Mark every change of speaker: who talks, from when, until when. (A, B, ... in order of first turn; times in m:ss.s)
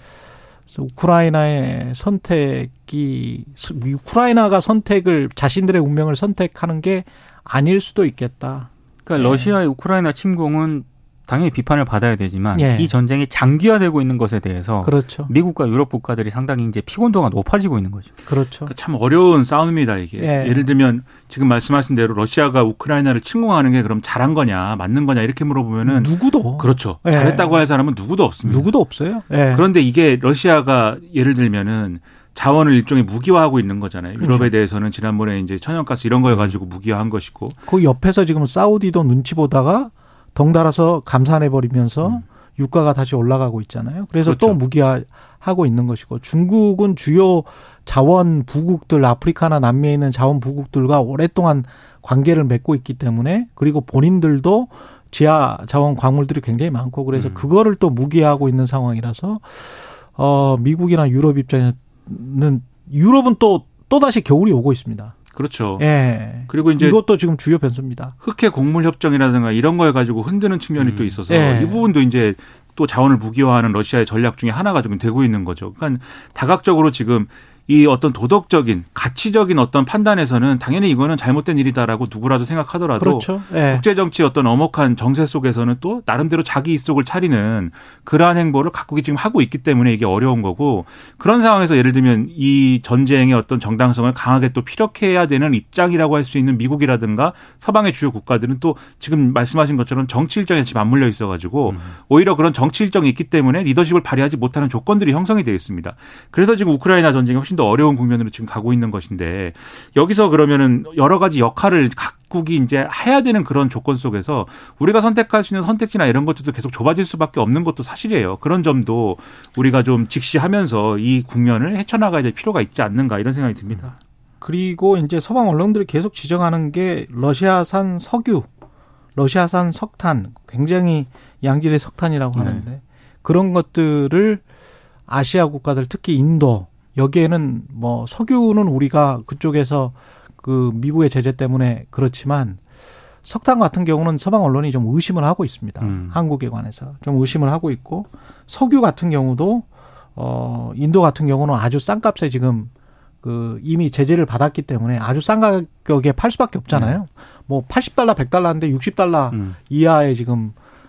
0:00.7-0:09.6 A
0:09.0-0:18.1 B
0:12.5-0:12.9 A
0:14.8-0:15.3 A
0:18.2-0:18.7 A
0:18.7-0:28.7 C
0:20.2-0:20.7 A
0:25.8-0:27.6 A
0:28.4-0:29.6 A
0:29.5-0:37.6 C
0:34.2-0:34.5 A
0:37.7-1:05.1 A
0:44.2-0:44.6 C
0:57.1-0:57.4 C
1:05.3-1:05.8 C
1:05.8-1:08.1 A
1:06.5-1:07.0 C
1:08.2-2:04.0 C
1:10.8-1:11.2 B
1:11.3-1:11.9 A
1:23.0-1:23.8 A
1:41.7-1:41.9 B
2:04.4-2:08.5 A
2:09.1-2:14.4 A
2:12.3-2:12.7 B
2:15.1-2:22.6 A
2:23.2-2:32.7 A
2:25.8-2:26.2 B
2:33.2-2:40.5 A
2:36.7-2:37.0 B